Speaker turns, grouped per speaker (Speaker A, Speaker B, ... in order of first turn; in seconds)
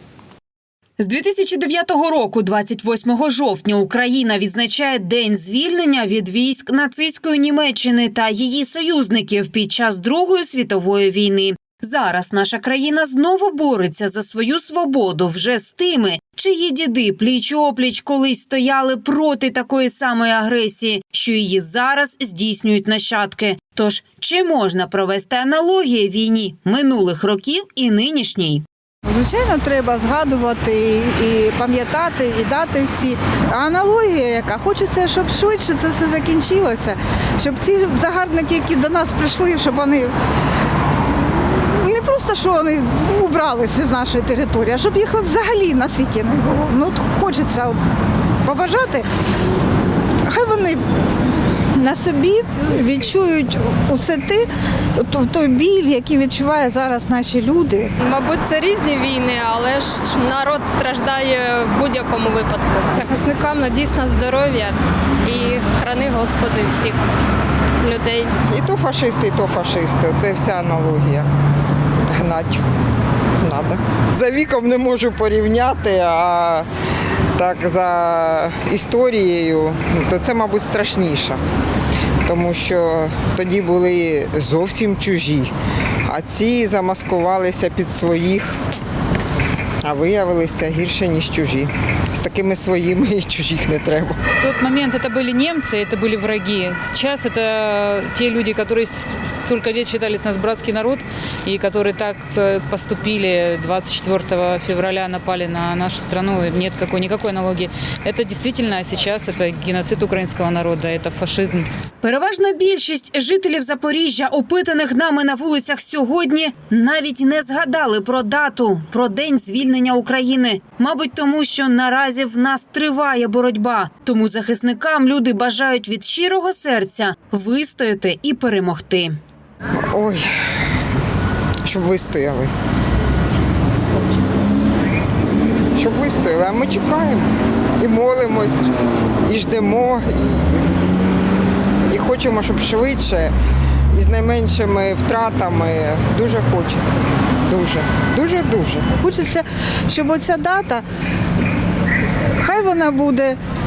Speaker A: 1.0-28.6, 112.0-129.2
Speaker B: 29.1-40.1, 41.5-47.8, 48.4-49.0, 50.3-50.8, 51.7-57.9, 148.9-150.8, 152.4-153.4
Speaker C: 58.0-67.0, 67.8-68.3
Speaker D: 68.5-71.3, 72.1-72.6, 73.4-76.7, 77.3-81.4, 82.2-85.5, 86.0-88.6, 89.8-94.2, 129.8-130.3, 131.6-132.5, 135.7-137.3, 137.8-138.7, 139.2-140.7, 141.9-143.3, 143.9-148.9
Speaker E: 94.4-111.7